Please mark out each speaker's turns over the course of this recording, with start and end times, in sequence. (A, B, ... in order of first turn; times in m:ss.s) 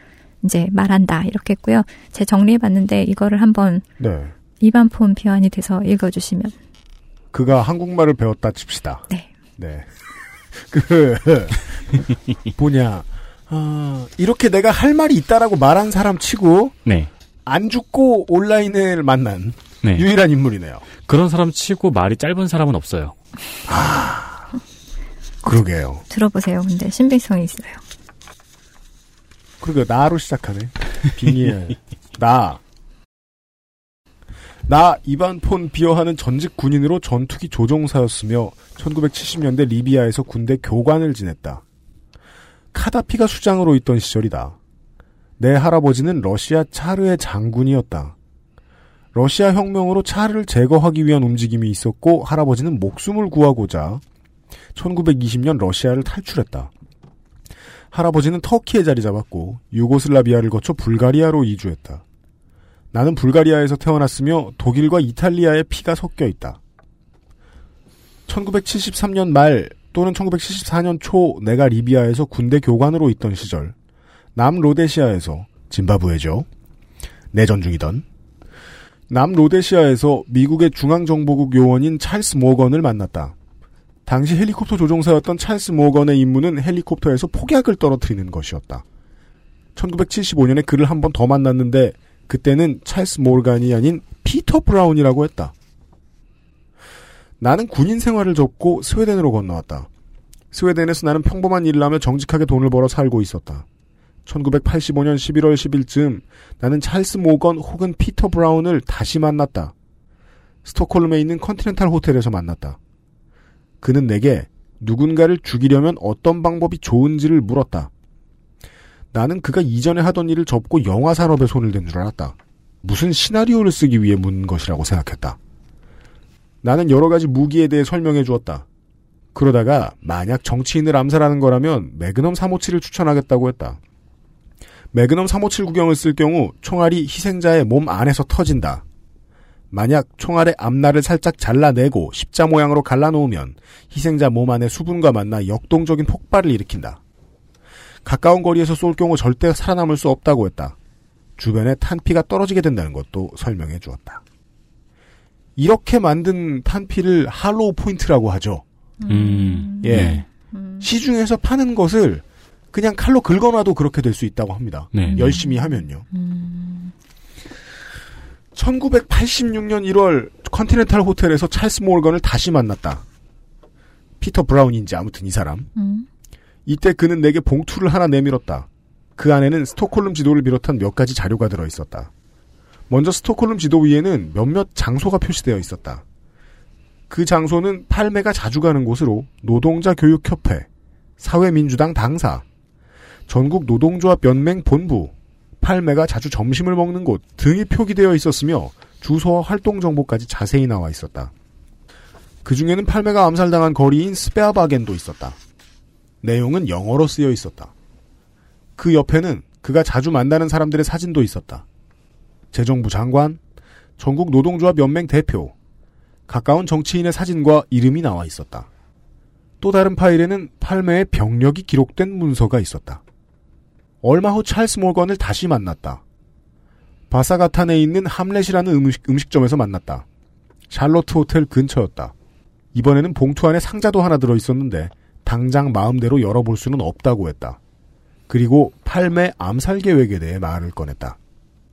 0:00.4-0:03.8 A
0:04.0-0:04.3 B
0:04.6-0:06.5 A
0:07.3-0:09.0 B
0:09.6-0:09.9 B
0:10.5-0:16.7 B
0:17.4-0:20.8 B
0:21.0-0:23.1 C
0:23.7-0:24.5 B
0:25.4-0:26.0 B
0:26.1-0:27.8 A
0:29.6-0:32.6 B
0:34.6-0:41.6 B
0:42.7-0:44.6 B
0:45.4-0:48.1 B
0:49.1-0:54.0 B
0:54.7-0:56.7 B
0:57.9-1:02.0 B
1:02.9-1:06.6 B
1:08.3-1:13.7 B
1:14.4-1:16.5 B
1:17.3-1:18.0 B
1:19.1-1:23.3 B
1:24.0-1:28.8 B
1:29.8-1:35.5 B
1:37.4-1:39.9 B
1:40.5-1:43.6 B
1:44.2-1:49.7 B
1:50.6-1:52.8 B
1:53.8-1:57.9 B
1:59.1-2:05.4 B
2:06.6-2:08.6 B
2:09.3-2:13.8 B
2:14.9-2:18.8 B
2:19.7-2:27.0 B
2:28.0-2:30.7 B
2:31.4-2:34.2 B
2:35.6-2:38.6 B
2:39.0-2:40.9 A
2:39.1-2:40.2 C
2:39.8-2:40.2 B
2:40.8-2:46.0 B
2:44.9-2:45.2 C
2:45.0-2:46.9 A
2:48.5-2:53.0 B
2:54.2-2:55.7 B
2:55.8-2:56.1 A
2:56.6-3:02.1 B
3:02.9-3:06.0 B
3:07.1-3:10.7 B
3:11.2-3:12.4 B
3:13.3-3:21.3 B
3:22.4-3:25.4 B
3:26.2-3:27.7 B
3:28.8-3:31.6 B
3:32.5-3:33.4 B
3:34.0-3:35.5 B
3:36.3-3:38.7 B
3:39.6-3:43.0 B
3:44.0-3:46.0 B
3:47.1-3:50.0 B
3:50.7-3:52.1 B
3:52.7-3:57.6 B
3:58.3-4:01.2 B